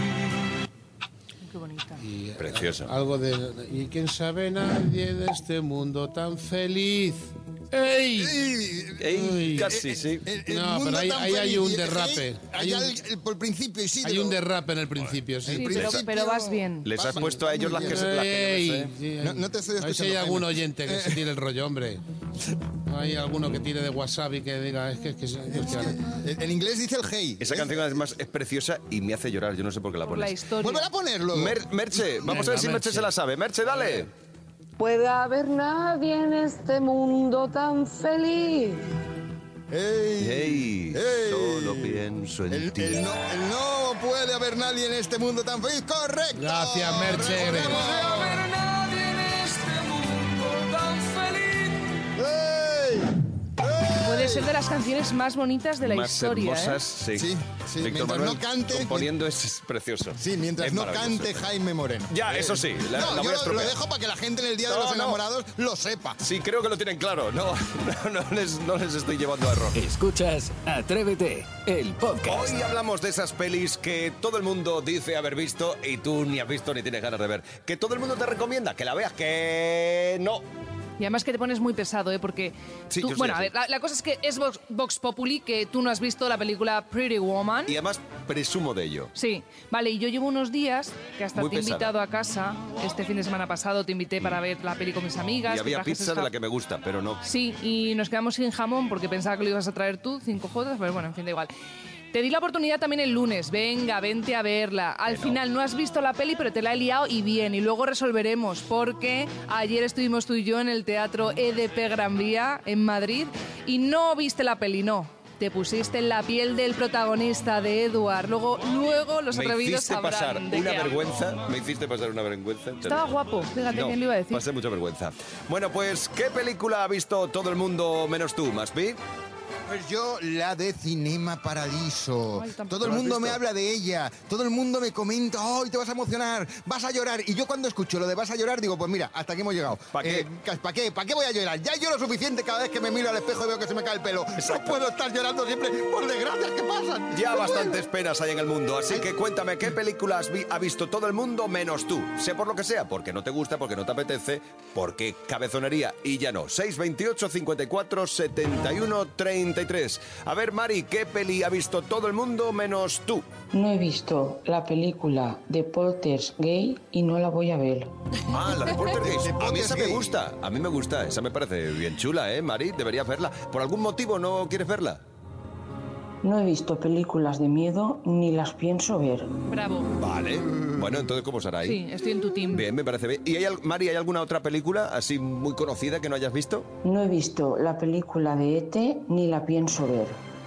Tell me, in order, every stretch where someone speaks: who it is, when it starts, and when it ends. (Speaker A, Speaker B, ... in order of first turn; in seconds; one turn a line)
Speaker A: 1.4-2.0
Speaker B: 2.0-8.4
Speaker C: 2.4-2.9
Speaker D: 8.2-14.4
Speaker C: 9.0-10.2
Speaker B: 9.2-9.7
Speaker B: 10.5-12.9
Speaker B: 14.0-15.8
Speaker D: 15.4-18.1
Speaker A: 15.6-16.9
Speaker C: 15.7-16.0
Speaker C: 16.8-18.9
Speaker B: 17.7-22.0
Speaker D: 19.2-21.2
Speaker B: 22.9-26.0
Speaker D: 25.7-27.8
Speaker C: 27.4-30.4
Speaker A: 30.0-30.9
Speaker D: 30.6-31.6
Speaker C: 31.3-34.1
Speaker B: 32.2-33.1
Speaker E: 34.8-38.9
Speaker D: 39.7-48.4
Speaker C: 40.2-43.0
Speaker B: 46.4-47.9
Speaker F: 48.4-51.7
Speaker D: 52.2-54.5
Speaker A: 54.0-56.8
Speaker C: 55.8-61.5
Speaker D: 57.1-59.1
Speaker D: 60.2-66.2
Speaker C: 62.1-63.8
Speaker C: 64.7-65.2
Speaker C: 66.2-69.8
Speaker G: 69.7-72.5
Speaker C: 72.3-80.4
Speaker A: 81.0-87.8
Speaker C: 82.9-83.5
Speaker C: 87.7-89.1
Speaker A: 89.1-96.3
Speaker C: 91.3-91.9
Speaker C: 95.5-97.2
Speaker A: 97.2-101.5
Speaker A: 102.1-121.0
Speaker C: 105.0-105.4
Speaker C: 119.3-129.0
Speaker A: 122.8-124.4
Speaker D: 129.7-147.8
Speaker A: 132.3-132.9
Speaker C: 132.8-133.4
Speaker C: 139.9-140.3
Speaker C: 144.4-144.8
Speaker C: 147.1-163.2
Speaker H: 163.5-167.9
Speaker C: 168.3-175.0
Speaker D: 169.0-170.1
Speaker H: 176.2-179.4
Speaker A: 179.5-179.9
Speaker C: 180.0-181.8
Speaker A: 181.6-182.7
Speaker C: 182.5-186.7
Speaker H: 186.8-190.2